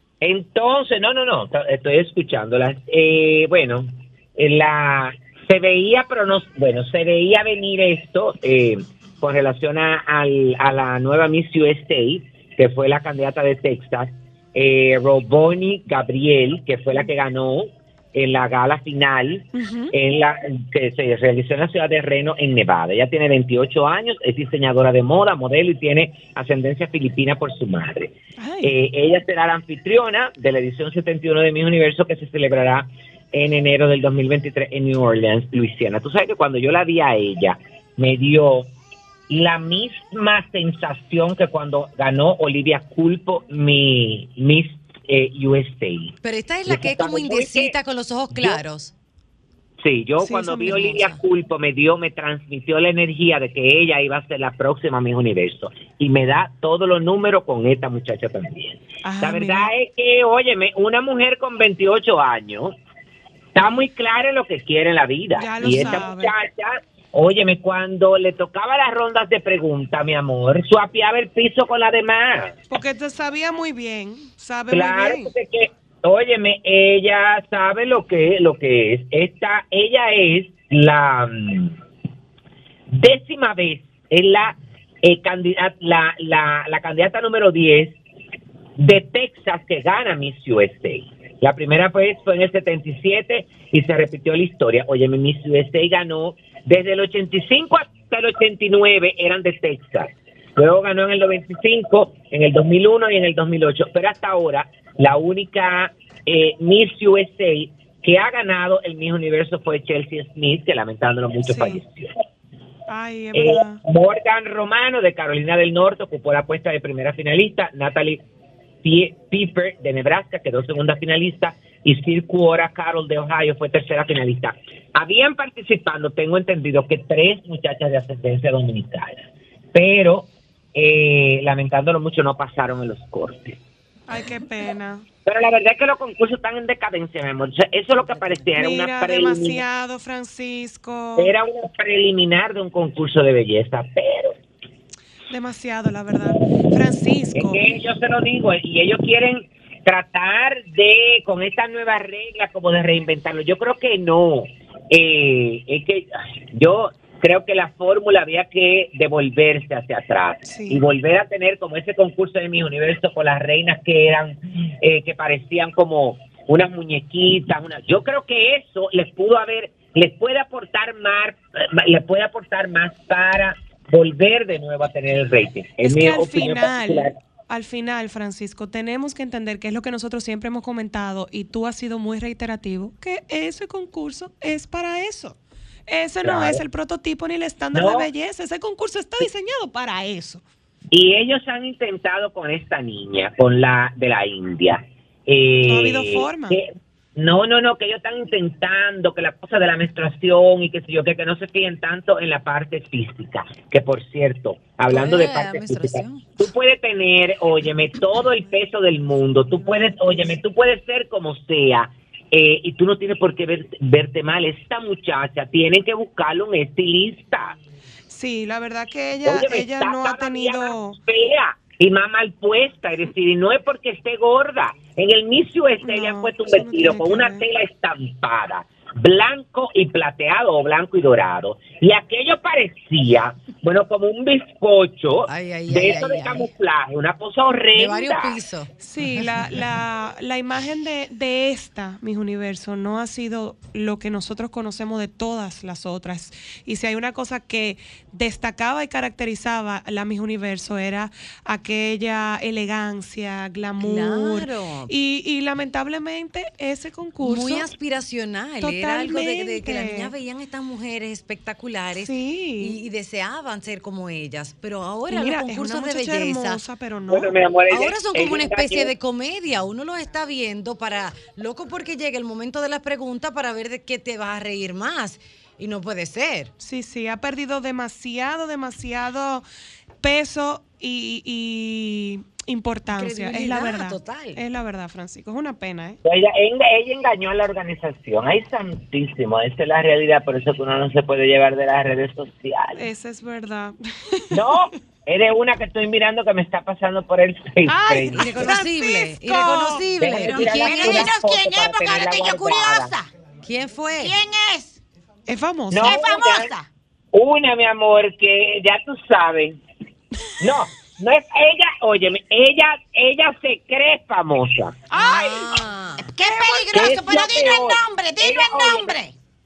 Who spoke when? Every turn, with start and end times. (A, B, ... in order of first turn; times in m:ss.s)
0:00.2-0:38.7 A
0:19.5-0:19.9 B
0:28.4-0:28.7 B
0:39.3-0:46.1 A
0:46.2-0:48.9 C
0:46.6-0:47.7 A
0:48.3-0:48.6 A
0:49.8-1:02.7 A
0:50.2-0:51.0 B
0:50.6-0:51.2 C
0:59.0-0:59.7 B
1:03.5-1:12.6 A
1:05.4-1:06.3 B
1:12.7-1:15.3 B
1:14.7-1:21.8 A
1:22.9-1:28.0 A
1:28.8-1:52.1 A
1:51.4-1:51.8 B
1:52.9-1:53.8 B
1:53.3-1:58.2 A
1:58.8-2:13.6 A
2:14.1-2:15.0 B
2:15.2-2:19.6 A
2:18.6-2:21.3 B
2:21.2-2:24.4 A
2:25.3-2:27.6 B
2:27.3-2:57.1 A
2:40.4-2:40.8 B
2:55.8-3:05.4 B
3:05.9-3:10.4 B
3:06.2-3:06.6 A
3:07.7-3:08.1 A
3:10.9-3:37.5 A
3:15.6-3:16.6 B
3:24.9-3:26.4 C
3:38.1-3:41.0 B
3:39.2-3:58.4 A
3:45.8-3:47.4 B
3:55.2-3:56.5 C
3:57.7-3:59.6 C
3:58.8-4:17.7 B
4:13.8-4:14.9 C
4:17.2-4:26.6 C
4:18.6-4:20.1 B
4:22.0-4:22.8 B
4:25.1-4:27.3 B
4:27.1-4:28.9 A
4:27.7-4:36.5 C
4:36.6-4:39.4 B
4:40.0-4:46.0 B
4:42.9-4:44.4 C
4:46.0-4:52.9 A
4:52.8-4:54.5 B
4:54.3-4:58.7 A
4:57.6-5:00.0 B
4:58.1-5:01.1 C
4:59.9-5:02.9 A
5:00.1-5:03.1 D
5:03.4-5:04.1 C
5:04.0-5:04.8 D
5:05.3-5:05.9 B
5:05.7-5:06.5 A
5:05.8-5:06.7 D
5:07.1-5:09.6 A
5:10.4-5:14.8 A
5:14.9-5:15.6 B
5:14.9-5:16.1 C
5:16.0-5:19.1 D
5:16.7-5:19.0 A